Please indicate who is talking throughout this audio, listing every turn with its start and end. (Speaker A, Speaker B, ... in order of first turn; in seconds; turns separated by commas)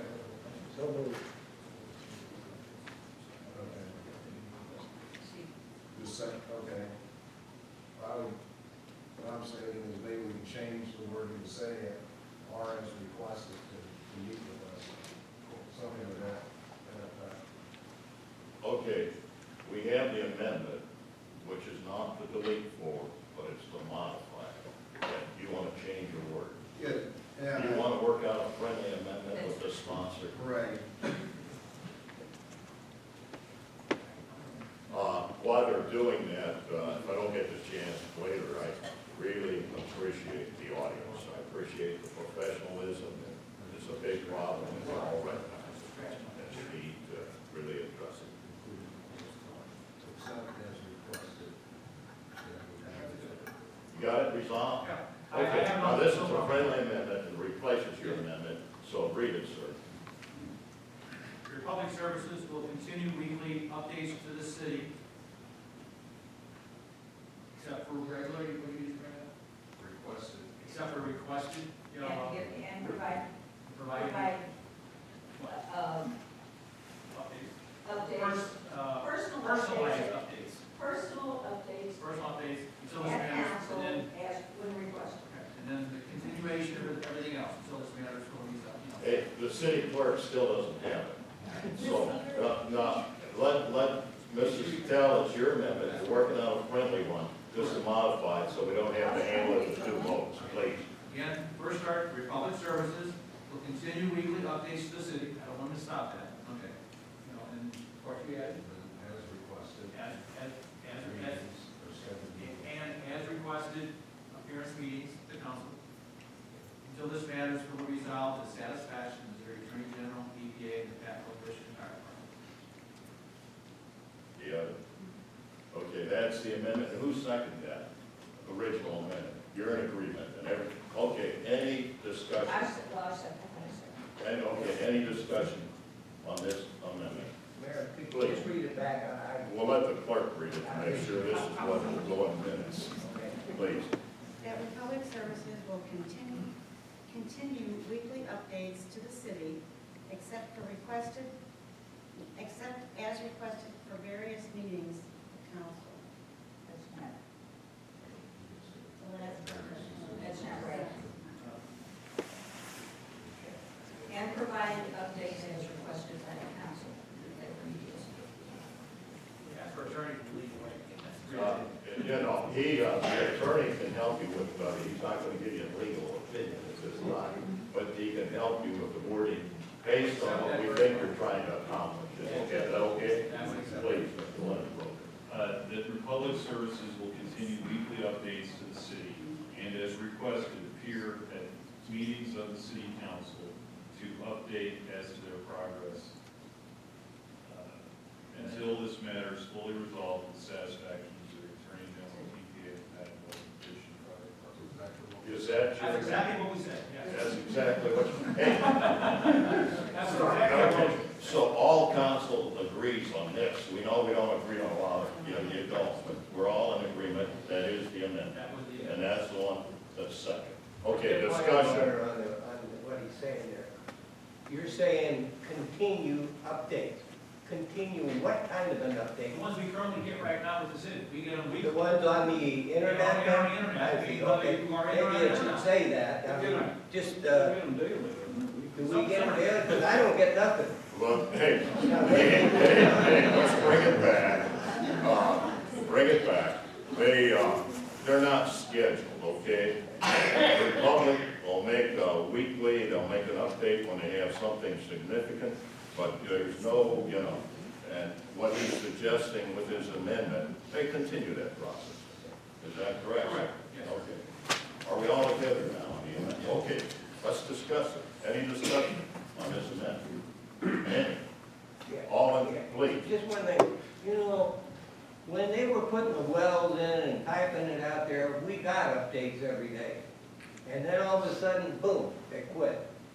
Speaker A: 0.6-1.2, Speaker B: 3.5-4.0, Speaker C: 4.0-4.8, Speaker B: 5.9-6.9, Speaker B: 8.0-8.4, Speaker B: 9.2-17.4, Speaker D: 18.6-19.1, Speaker D: 19.6-20.8, Speaker D: 21.4-26.6, Speaker B: 26.8-27.9, Speaker D: 27.5-30.4, Speaker E: 29.3-29.7, Speaker B: 30.3-31.1, Speaker C: 34.0-34.7, Speaker D: 34.9-48.4, Speaker B: 43.6-44.5, Speaker C: 44.6-46.8, Speaker B: 48.4-49.2, Speaker C: 49.1-49.7, Speaker B: 50.0-51.6, Speaker B: 52.4-53.7, Speaker C: 52.8-53.4, Speaker D: 53.9-59.8, Speaker C: 54.8-56.7, Speaker C: 61.5-64.9, Speaker C: 67.5-69.3, Speaker B: 69.8-70.5, Speaker C: 70.5-72.5, Speaker E: 72.0-73.3, Speaker C: 73.7-74.5, Speaker E: 73.9-74.4, Speaker E: 75.5-76.1, Speaker C: 77.1-80.6, Speaker E: 77.8-80.2, Speaker E: 80.8-82.0, Speaker C: 82.0-84.1, Speaker E: 83.0-85.3, Speaker C: 85.2-89.2, Speaker D: 89.0-100.9, Speaker E: 91.8-92.5, Speaker C: 94.4-96.2, Speaker C: 97.5-97.8, Speaker E: 99.0-100.2, Speaker C: 101.0-108.6, Speaker B: 108.5-110.0, Speaker C: 109.9-111.5, Speaker B: 110.9-112.7, Speaker C: 112.4-115.8, Speaker C: 116.8-122.3, Speaker D: 124.4-124.7, Speaker D: 125.7-132.7, Speaker E: 132.5-134.1, Speaker D: 134.2-135.7, Speaker D: 136.2-137.3, Speaker A: 137.4-139.5, Speaker D: 138.1-138.5, Speaker D: 139.4-143.9, Speaker A: 140.6-141.7, Speaker A: 143.0-143.4, Speaker F: 144.4-146.5, Speaker F: 147.1-151.3, Speaker F: 152.3-156.0, Speaker E: 156.7-157.2, Speaker B: 158.4-161.1, Speaker F: 158.9-161.5, Speaker E: 160.2-160.9, Speaker B: 163.2-163.5, Speaker E: 164.1-168.6, Speaker F: 164.8-166.0, Speaker C: 169.4-171.7, Speaker D: 171.3-185.1, Speaker C: 180.0-181.3, Speaker C: 182.2-184.0, Speaker G: 185.3-196.2, Speaker G: 197.4-204.8, Speaker C: 198.4-198.7, Speaker B: 204.6-205.6, Speaker D: 205.2-206.3, Speaker C: 205.8-207.2, Speaker D: 207.0-221.9, Speaker C: 208.5-211.3, Speaker C: 218.3-219.0, Speaker A: 220.9-223.8, Speaker A: 224.5-229.5, Speaker C: 229.3-231.8, Speaker A: 231.6-237.6, Speaker C: 232.8-235.7, Speaker C: 236.3-236.7, Speaker A: 238.7-240.8, Speaker C: 238.8-239.9, Speaker D: 240.9-264.2, Speaker A: 241.8-243.7, Speaker C: 263.2-263.9, Speaker D: 264.8-270.1, Speaker D: 270.6-271.2, Speaker A: 271.9-274.6, Speaker D: 272.1-273.1, Speaker A: 275.2-280.0, Speaker A: 280.6-282.8